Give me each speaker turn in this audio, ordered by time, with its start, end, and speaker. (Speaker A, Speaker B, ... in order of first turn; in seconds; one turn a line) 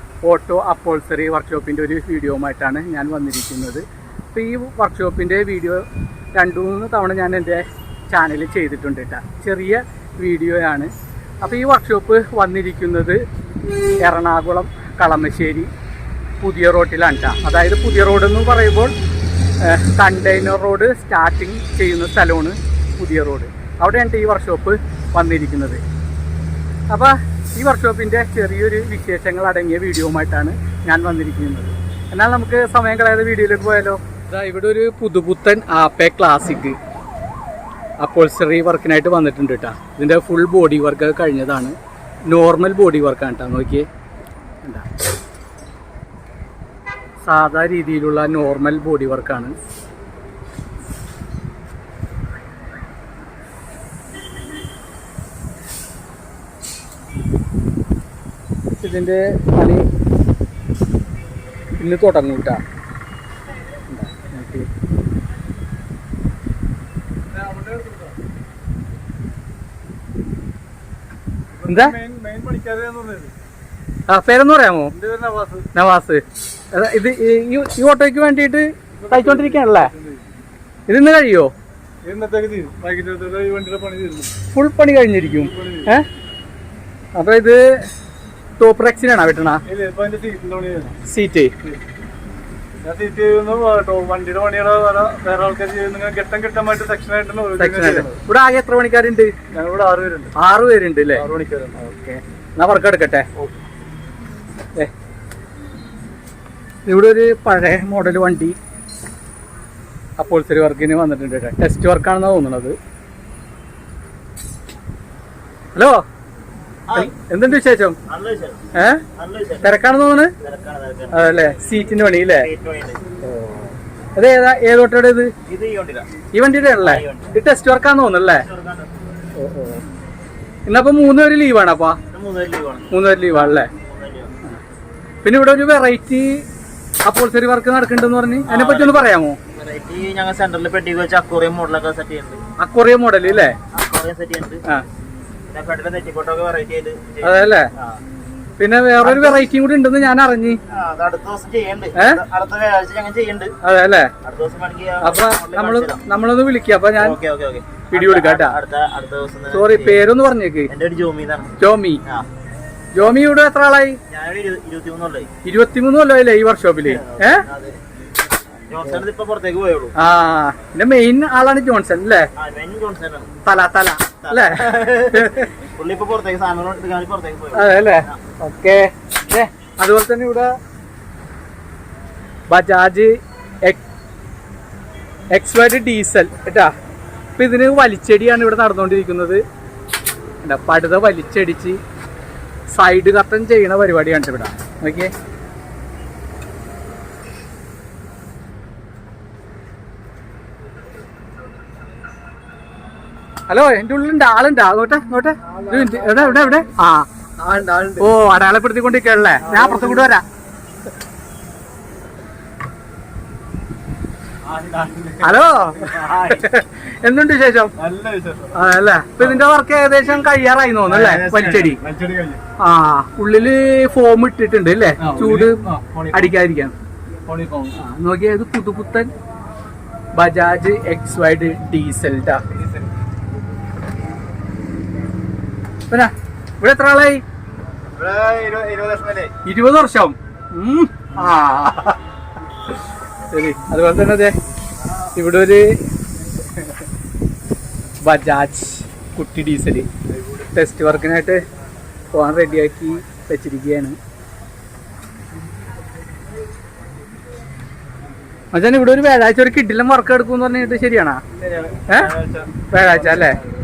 Speaker A: 0.2-10.9
Speaker A: 11.4-13.2
Speaker A: 14.0-15.7
Speaker A: 16.4-18.9
Speaker A: 19.6-25.8
Speaker A: 26.9-36.8
Speaker A: 38.0-41.8
Speaker A: 42.3-43.9
Speaker A: 44.6-44.9
Speaker A: 47.2-49.6
Speaker A: 58.8-59.9
Speaker A: 61.8-62.6
Speaker A: 63.9-64.7
Speaker B: 67.4-68.1
Speaker B: 71.6-73.3
Speaker A: 71.7-72.0
Speaker A: 74.1-74.9
Speaker B: 74.9-75.7
Speaker A: 75.7-79.9
Speaker B: 79.0-80.2
Speaker A: 80.9-81.5
Speaker B: 82.0-84.3
Speaker A: 84.5-86.1
Speaker B: 85.4-85.9
Speaker A: 87.2-87.8
Speaker A: 88.6-89.6
Speaker B: 89.7-91.0
Speaker A: 91.0-91.5
Speaker B: 92.8-98.2
Speaker A: 97.6-99.4
Speaker B: 99.5-100.3
Speaker A: 100.3-103.3
Speaker B: 101.2-101.8
Speaker A: 106.9-108.6
Speaker A: 110.2-112.8
Speaker A: 115.8-116.0
Speaker C: 116.9-117.1
Speaker A: 116.9-118.0
Speaker C: 118.1-118.6
Speaker A: 118.7-119.0
Speaker C: 119.2-119.8
Speaker A: 119.6-120.3
Speaker C: 120.4-121.6
Speaker A: 121.1-122.5
Speaker C: 122.3-123.0
Speaker A: 123.2-125.3
Speaker C: 125.5-126.1
Speaker A: 126.3-128.5
Speaker C: 126.8-127.3
Speaker C: 128.3-129.2
Speaker A: 129.4-129.8
Speaker A: 130.7-132.0
Speaker C: 132.1-134.3
Speaker A: 132.9-133.7
Speaker A: 135.2-136.4
Speaker A: 137.1-139.4
Speaker C: 138.5-142.4
Speaker A: 142.6-143.6
Speaker C: 143.4-144.6
Speaker C: 145.5-148.0
Speaker A: 147.2-147.7
Speaker A: 148.6-150.6
Speaker C: 149.0-149.4
Speaker C: 150.7-153.6
Speaker A: 151.9-152.2
Speaker A: 153.6-154.1
Speaker C: 154.2-156.0
Speaker A: 155.0-157.2
Speaker C: 157.0-160.1
Speaker A: 157.9-158.6
Speaker A: 159.5-160.7
Speaker C: 160.7-162.3
Speaker A: 161.6-162.0
Speaker A: 162.9-164.0
Speaker C: 164.1-165.3
Speaker A: 165.4-167.4
Speaker C: 166.9-167.8
Speaker C: 168.7-169.9
Speaker A: 169.9-172.3
Speaker C: 172.4-173.3
Speaker A: 173.4-175.5
Speaker C: 174.2-178.2
Speaker A: 177.5-180.6
Speaker A: 182.5-183.8
Speaker A: 185.3-186.7
Speaker A: 187.4-189.4
Speaker A: 190.4-191.8
Speaker A: 192.7-195.1
Speaker A: 203.5-207.1
Speaker B: 205.4-206.7
Speaker B: 207.4-208.1
Speaker A: 208.0-210.2
Speaker B: 209.4-210.1
Speaker B: 214.4-216.2
Speaker A: 215.2-217.8
Speaker B: 217.8-218.6
Speaker A: 218.5-221.8
Speaker B: 220.9-222.4
Speaker A: 222.6-226.7
Speaker B: 225.0-226.3
Speaker B: 227.3-227.8
Speaker A: 227.8-229.1
Speaker A: 230.1-232.4
Speaker A: 235.9-237.2
Speaker B: 237.9-239.3
Speaker A: 239.4-242.0
Speaker A: 243.3-244.4
Speaker A: 245.2-245.8
Speaker A: 248.0-249.9
Speaker A: 250.5-251.4
Speaker A: 252.1-254.0
Speaker A: 258.5-261.2
Speaker B: 261.4-263.5
Speaker A: 261.9-262.1
Speaker A: 262.7-263.4